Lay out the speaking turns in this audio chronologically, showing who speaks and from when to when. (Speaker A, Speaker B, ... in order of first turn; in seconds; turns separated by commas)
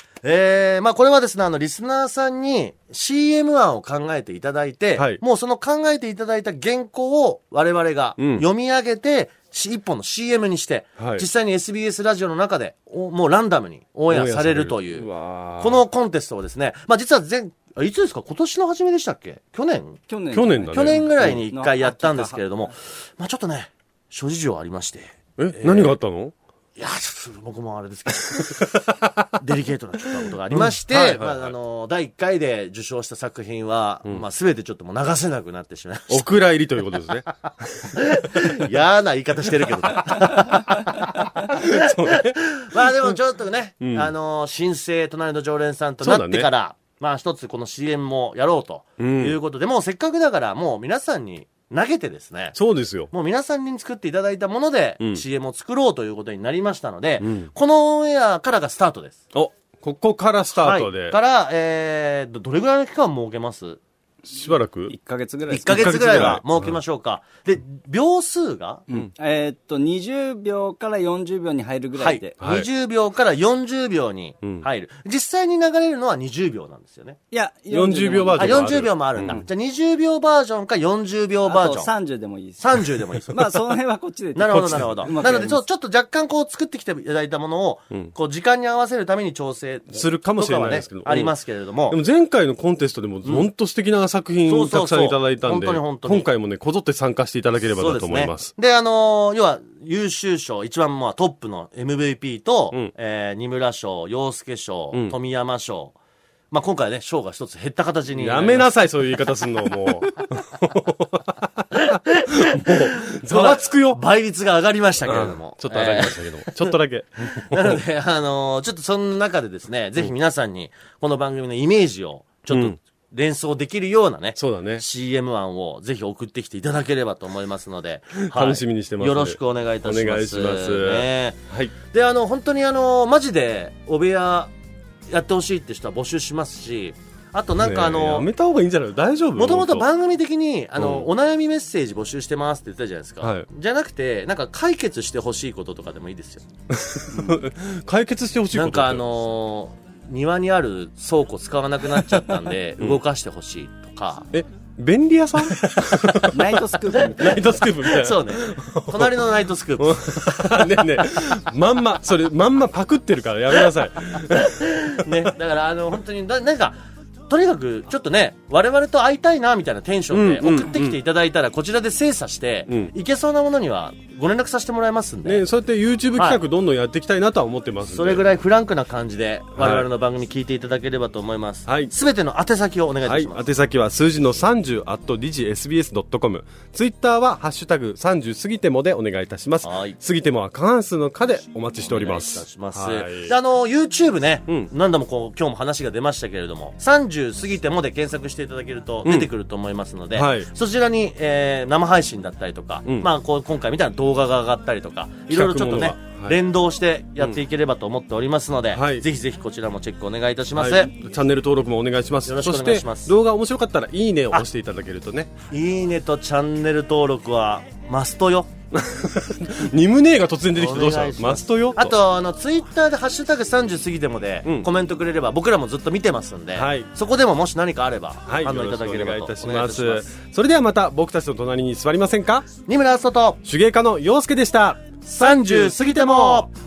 Speaker A: 0.2-15.1, Speaker B: 8.2-8.4, Speaker B: 11.0-11.2, Speaker B: 14.1-15.8, Speaker A: 15.6-20.0, Speaker C: 20.1-22.7, Speaker B: 20.3-21.4, Speaker A: 20.7-26.0, Speaker B: 25.4-26.3, Speaker A: 26.8-28.7, Speaker B: 28.3-29.3, Speaker A: 29.4-36.3, Speaker B: 30.5-31.5, Speaker B: 36.1-38.0, Speaker A: 37.9-52.6, Speaker B: 41.5-42.4, Speaker B: 43.8-44.1, Speaker B: 46.0-46.5, Speaker B: 49.0-49.4, Speaker B: 52.6-53.1, Speaker A: 53.1-59.2, Speaker B: 57.2-57.5, Speaker B: 59.3-61.2, Speaker A: 60.6-63.8, Speaker B: 64.3-64.9, Speaker C: 64.5-66.4, Speaker A: 65.5-68.8, Speaker B: 65.6-66.8, Speaker C: 68.9-72.3, Speaker A: 72.0-77.2, Speaker B: 72.4-72.7, Speaker C: 77.3-79.4, Speaker B: 77.7-79.4, Speaker A: 78.4-81.9, Speaker C: 81.5-82.6, Speaker A: 82.6-83.4, Speaker C: 83.3-85.6, Speaker A: 84.3-92.0, Speaker B: 84.5-84.9, Speaker B: 89.9-91.3, Speaker B: 91.9-98.5, Speaker A: 94.5-96.3, Speaker A: 97.8-106.0, Speaker A: 106.5-108.7, Speaker B: 108.2-111.8, Speaker A: 111.8-116.7, Speaker B: 112.3-114.0, Speaker B: 115.0-117.8, Speaker A: 117.3-134.5, Speaker B: 122.5-122.8, Speaker B: 124.4-124.8, Speaker B: 128.2-131.7, Speaker A: 135.1-138.3, Speaker B: 137.6-139.8, Speaker A: 139.4-146.4, Speaker B: 140.8-141.1, Speaker B: 146.7-149.0, Speaker A: 148.5-154.3, Speaker B: 154.3-165.1, Speaker C: 156.3-157.4, Speaker A: 156.9-157.3, Speaker A: 157.8-160.0, Speaker A: 164.3-175.4, Speaker B: 170.1-171.0, Speaker B: 175.2-178.2, Speaker A: 177.9-183.4, Speaker B: 179.6-179.9, Speaker B: 181.7-181.9, Speaker B: 183.1-193.3, Speaker A: 189.6-190.0, Speaker A: 191.8-210.9, Speaker B: 199.1-199.3, Speaker B: 200.2-200.5, Speaker B: 205.3-206.4, Speaker B: 208.7-209.1, Speaker B: 210.6-215.3, Speaker A: 212.2-213.1, Speaker A: 215.5-218.5, Speaker B: 218.7-221.9, Speaker A: 220.6-230.1, Speaker B: 226.6-226.9, Speaker B: 228.3-232.5, Speaker A: 232.7-233.4, Speaker B: 233.4-236.5, Speaker A: 235.1-236.5